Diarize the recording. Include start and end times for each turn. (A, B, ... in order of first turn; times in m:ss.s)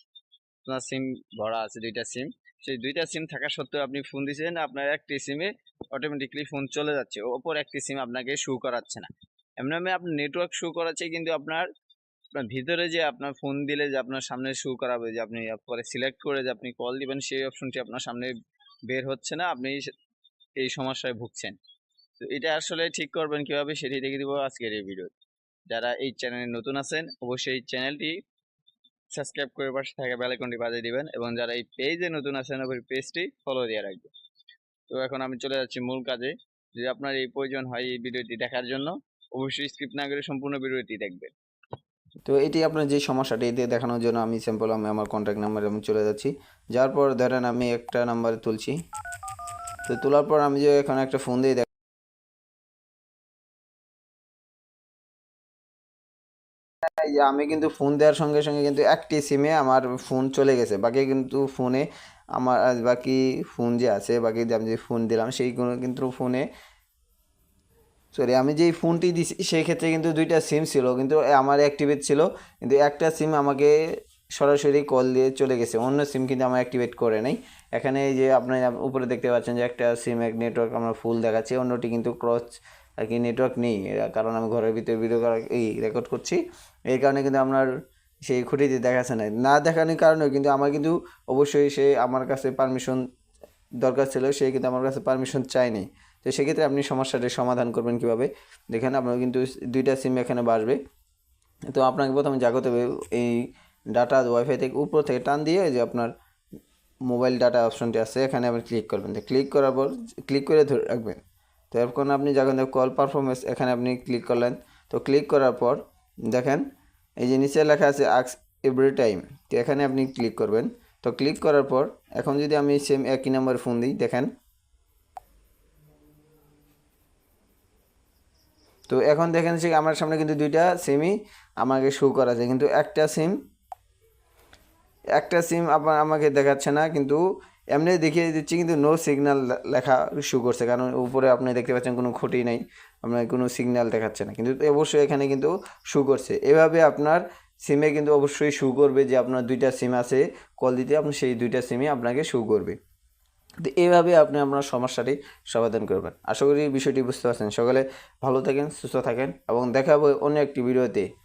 0:00.7-0:11.7 A
0:12.3-0:18.3 A
0:18.9-0:19.9 A
0:20.6-0:21.6 A
0:22.2-0:25.1 A
0:25.7-0:28.2 A
0:29.1-0:34.1 A
0:34.9-0:41.3 A
0:42.2-0:48.7 B
0:49.9-0:51.7 B
0:57.1-1:01.9 B
1:02.4-1:06.4 B
1:08.1-1:13.7 B
1:14.4-1:22.4 B
1:23.0-1:26.4 B
1:26.9-1:27.6 B
1:28.3-1:33.0 B
1:33.8-1:40.8 B
1:41.7-1:46.1 B
1:45.2-1:45.7 A
1:47.1-1:51.2 B
1:51.7-1:55.8 B
1:53.0-1:53.4 A
1:56.3-1:56.6 B
1:57.2-1:59.6 B
1:58.9-2:00.4 A
2:00.1-2:02.8 B
2:02.3-2:04.0 A
2:03.4-2:04.3 B
2:08.9-2:13.3 B
2:09.3-2:09.8 A
2:15.2-2:17.2 B
2:15.9-2:16.6 A
2:17.7-2:28.0 B
2:21.7-2:22.4 A
2:28.0-2:28.5 A
2:28.5-2:32.8 B
2:33.7-2:41.0 B
2:33.8-2:34.1 A
2:38.7-2:39.5 A